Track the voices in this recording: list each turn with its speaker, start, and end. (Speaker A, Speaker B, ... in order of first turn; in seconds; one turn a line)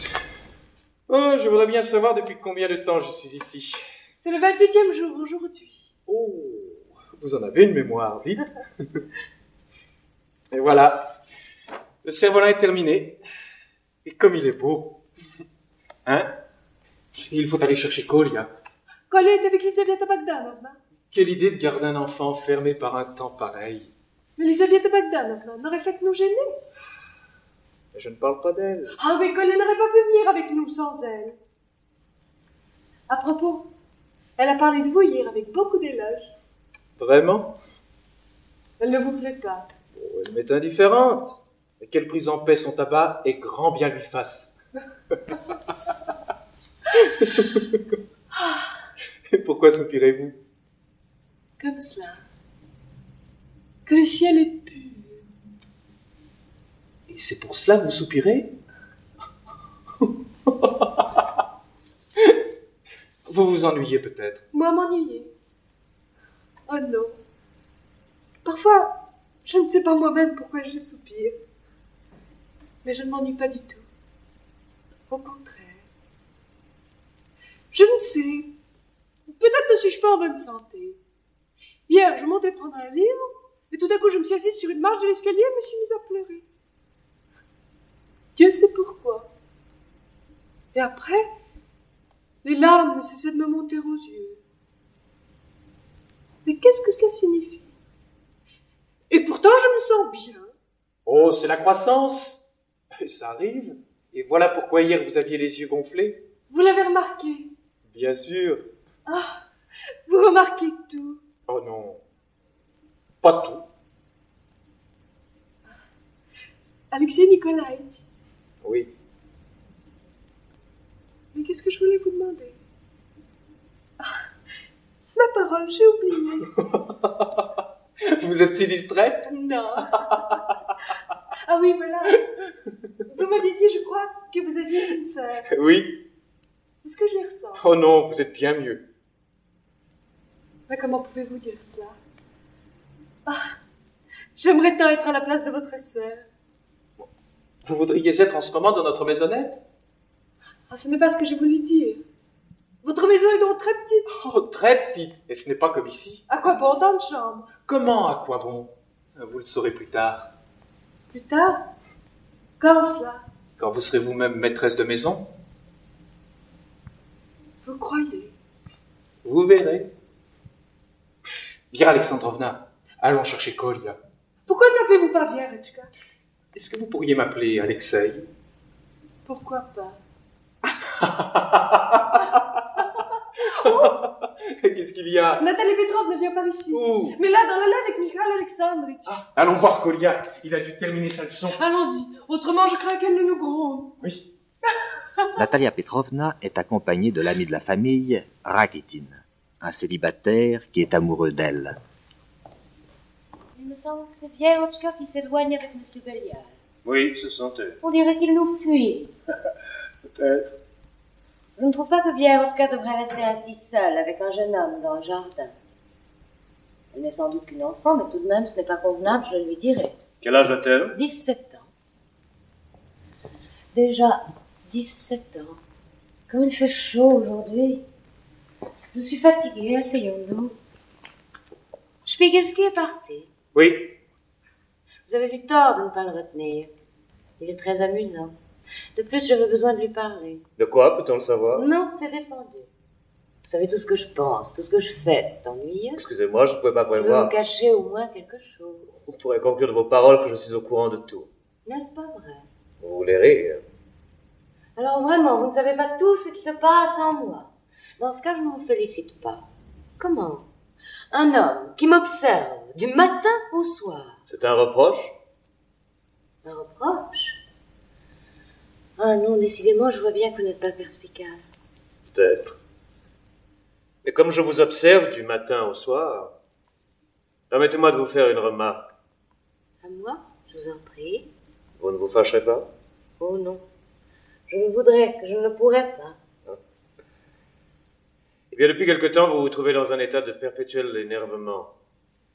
Speaker A: 1.1-3.8
Speaker B: 4.2-5.9
Speaker A: 6.1-8.4
Speaker A: 10.5-11.1
Speaker A: 12.0-13.2
Speaker A: 14.0-15.0
Speaker A: 16.1-16.3
Speaker A: 17.1-18.5
Speaker B: 19.1-20.8
Speaker A: 21.1-23.9
Speaker B: 24.4-26.6
Speaker A: 27.9-29.0
Speaker B: 29.0-31.4
Speaker B: 33.1-33.7
Speaker B: 34.4-36.3
Speaker A: 37.0-37.5
Speaker B: 38.8-39.7
Speaker A: 40.0-44.5
Speaker B: 48.3-48.7
Speaker A: 49.3-50.4
Speaker B: 51.6-52.2
Speaker B: 53.9-55.2
Speaker A: 57.1-58.5
Speaker A: 60.5-61.0
Speaker A: 63.3-64.4
Speaker B: 64.5-65.3
Speaker B: 66.7-67.2
Speaker B: 68.4-71.3
Speaker B: 72.8-73.9
Speaker B: 75.1-75.8
Speaker B: 77.7-78.5
Speaker B: 79.3-81.0
Speaker B: 81.9-86.5
Speaker B: 88.4-89.3
Speaker B: 90.7-91.3
Speaker B: 92.4-94.4
Speaker B: 96.5-97.7
Speaker B: 99.1-100.5
Speaker A: 101.1-102.5
Speaker A: 103.0-106.2
Speaker B: 106.5-107.5
Speaker A: 107.9-108.7
Speaker B: 109.1-109.4
Speaker B: 110.1-111.2
Speaker A: 111.5-112.0
Speaker A: 113.2-113.7
Speaker B: 116.9-118.0
Speaker A: 118.6-118.9
Speaker B: 121.3-122.6
Speaker B: 125.1-126.5
Speaker A: 126.6-127.4
Speaker A: 128.0-129.3
Speaker B: 129.3-130.4
Speaker B: 131.4-132.2
Speaker B: 133.1-135.5
Speaker A: 135.5-136.0
Speaker B: 136.8-137.6
Speaker A: 137.6-138.9
Speaker B: 140.7-142.0
Speaker B: 143.3-143.6
Speaker B: 144.4-146.3
Speaker A: 147.6-149.6
Speaker B: 150.7-152.0
Speaker B: 152.8-154.1
Speaker A: 154.1-156.2
Speaker B: 156.3-157.5
Speaker A: 157.7-160.3
Speaker B: 161.1-161.7
Speaker B: 162.6-163.2
Speaker A: 163.6-165.3
Speaker B: 167.6-168.3
Speaker A: 169.2-169.9
Speaker A: 171.7-174.0
Speaker B: 174.5-175.9
Speaker A: 176.5-178.3
Speaker B: 179.2-180.0
Speaker A: 180.9-182.4
Speaker A: 183.6-185.4
Speaker B: 183.6-183.9
Speaker B: 185.4-189.2
Speaker A: 186.7-187.2
Speaker A: 189.1-191.6
Speaker B: 191.5-193.9
Speaker A: 194.0-194.3
Speaker C: 195.4-201.8
Speaker D: 203.6-206.6
Speaker E: 206.8-207.8
Speaker D: 207.8-209.1
Speaker E: 210.1-210.5
Speaker D: 211.6-215.5
Speaker D: 216.9-220.0
Speaker E: 220.2-221.0
Speaker D: 220.9-221.7
Speaker D: 223.7-225.6
Speaker D: 226.3-227.8
Speaker D: 228.9-230.6
Speaker D: 232.1-233.3
Speaker E: 233.5-233.9
Speaker D: 235.1-236.7
Speaker D: 237.4-238.4
Speaker D: 238.9-240.4
Speaker E: 240.6-241.6
Speaker D: 241.5-242.7
Speaker D: 243.4-246.0
Speaker E: 246.0-247.3
Speaker D: 246.9-249.0
Speaker E: 249.1-251.3
Speaker D: 251.7-252.5
Speaker E: 252.8-253.6
Speaker D: 254.8-259.4
Speaker D: 260.0-260.5
Speaker D: 261.1-264.2
Speaker E: 264.3-265.1
Speaker D: 266.4-267.4
Speaker D: 269.0-272.0
Speaker E: 272.1-272.6
Speaker E: 274.0-276.3
Speaker E: 277.5-278.8
Speaker D: 279.8-281.3
Speaker E: 281.8-282.7
Speaker D: 283.2-283.6
Speaker D: 284.5-286.2
Speaker E: 288.5-291.7